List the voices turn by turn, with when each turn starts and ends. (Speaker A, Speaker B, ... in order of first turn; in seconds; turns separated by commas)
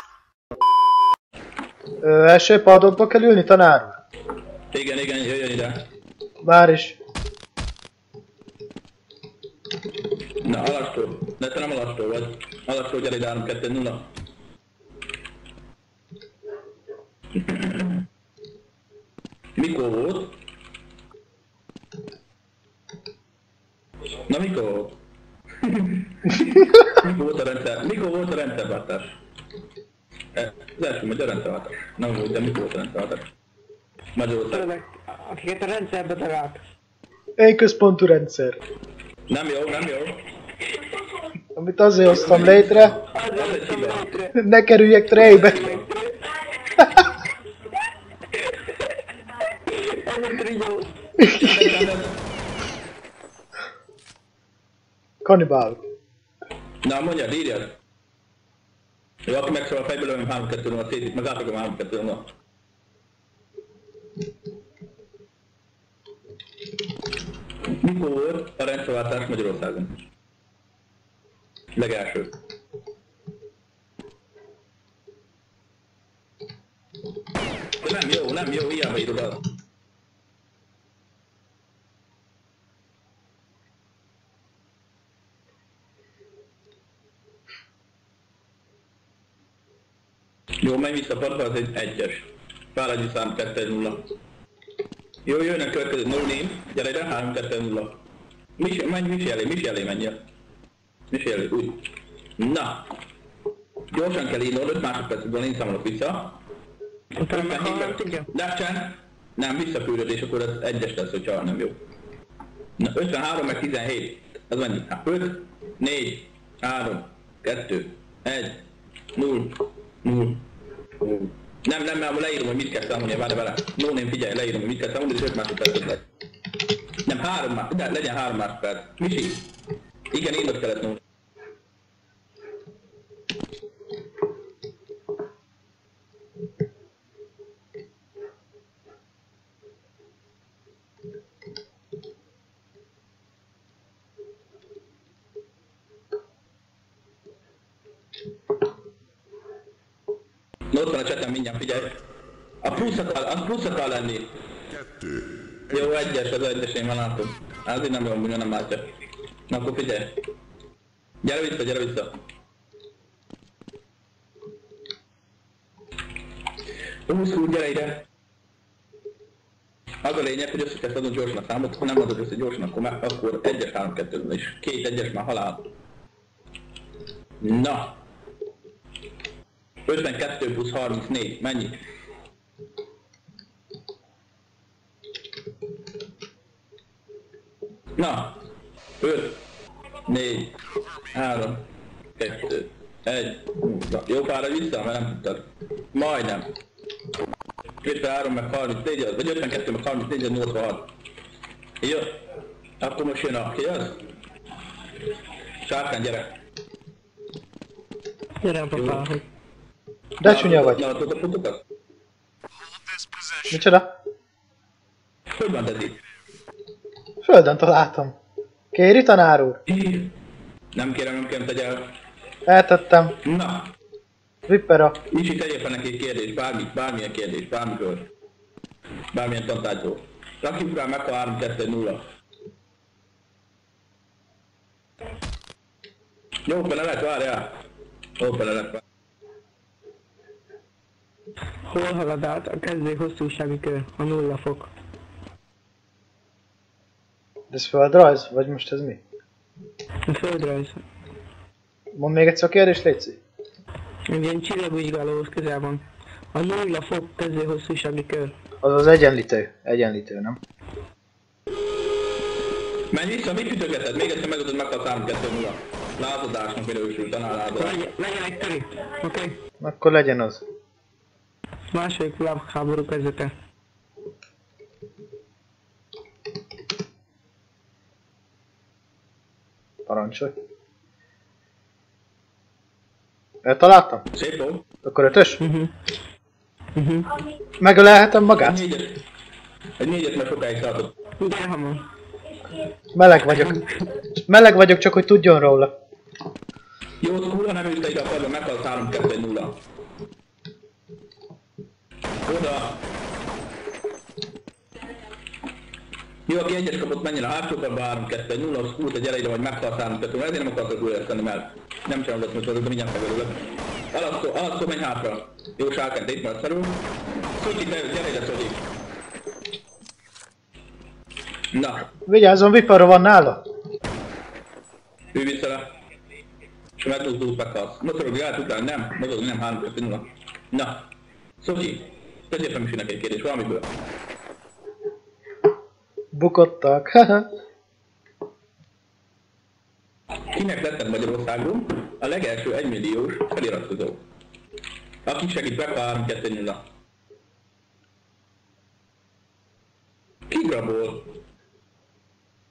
Speaker A: 2.0-4.0, Speaker B: 4.7-5.9, Speaker A: 6.4-7.0, Speaker B: 10.4-14.1, Speaker B: 17.4-18.0, Speaker B: 19.6-20.4, Speaker B: 24.3-25.0, Speaker B: 25.6-29.2, Speaker B: 30.3-33.3, Speaker B: 34.1-34.7, Speaker C: 34.5-36.6, Speaker A: 37.4-38.6, Speaker B: 39.3-40.3, Speaker A: 41.5-43.0, Speaker B: 42.0-44.1, Speaker C: 43.1-44.3, Speaker A: 44.3-45.7, Speaker B: 45.1-45.9, Speaker C: 45.7-46.1, Speaker C: 49.7-50.9, Speaker B: 51.2-52.2, Speaker A: 55.2-55.8, Speaker B: 56.8-57.8, Speaker B: 59.2-62.3, Speaker B: 67.8-70.0, Speaker B: 71.8-72.3, Speaker B: 77.8-79.5, Speaker B: 90.6-94.1, Speaker B: 95.2-98.0, Speaker B: 98.6-100.2, Speaker B: 101.1-101.9, Speaker B: 102.4-102.9, Speaker B: 103.9-106.4, Speaker C: 107.2-108.2, Speaker B: 107.3-111.8, Speaker B: 112.8-118.6, Speaker B: 119.1-120.5, Speaker B: 121.0-126.0, Speaker B: 127.0-129.5, Speaker B: 130.1-131.0, Speaker B: 150.7-152.0, Speaker B: 152.6-154.3, Speaker B: 155.7-158.9, Speaker B: 159.5-160.2, Speaker B: 161.2-162.2, Speaker B: 167.1-168.1, Speaker B: 170.0-175.7, Speaker B: 177.4-178.0, Speaker B: 179.9-181.8, Speaker B: 188.0-188.4, Speaker B: 189.0-189.4, Speaker B: 190.1-190.6, Speaker B: 191.1-196.5, Speaker B: 197.8-200.9, Speaker B: 201.8-202.2, Speaker B: 202.8-204.0, Speaker B: 205.6-206.3, Speaker C: 208.4-209.2, Speaker B: 208.7-209.1, Speaker A: 210.2-210.9, Speaker B: 210.2-211.6, Speaker A: 213.5-213.9, Speaker B: 215.4-216.0, Speaker A: 217.2-218.2, Speaker A: 218.7-219.6, Speaker B: 219.7-220.1, Speaker B: 220.7-221.9, Speaker A: 222.5-223.1, Speaker B: 223.2-223.7, Speaker A: 224.5-225.0, Speaker B: 225.1-228.1, Speaker B: 229.1-232.1, Speaker B: 236.4-237.6, Speaker B: 238.2-238.8, Speaker C: 241.7-244.7, Speaker A: 247.5-249.0, Speaker C: 250.1-250.8, Speaker A: 252.0-253.2, Speaker C: 254.1-258.3, Speaker A: 258.6-260.4, Speaker B: 262.9-267.9, Speaker C: 267.6-269.4, Speaker A: 269.6-270.4, Speaker C: 271.7-273.3, Speaker A: 279.9-280.3, Speaker A: 283.4-284.0, Speaker B: 284.1-284.6, Speaker A: 284.8-285.4, Speaker C: 285.4-285.7, Speaker C: 286.8-287.1, Speaker A: 287.6-288.6, Speaker B: 288.4-289.0, Speaker B: 289.8-290.9, Speaker C: 291.2-291.8, Speaker A: 292.9-293.6, Speaker A: 294.2-295.7, Speaker B: 297.0-299.6, Speaker B: 302.2-302.8, Speaker B: 306.3-318.6, Speaker B: 321.5-321.9, Speaker A: 322.1-323.4, Speaker B: 325.1-325.7, Speaker B: 326.8-333.7, Speaker A: 336.1-337.3, Speaker B: 340.3-344.0, Speaker B: 345.1-346.6, Speaker B: 350.3-351.2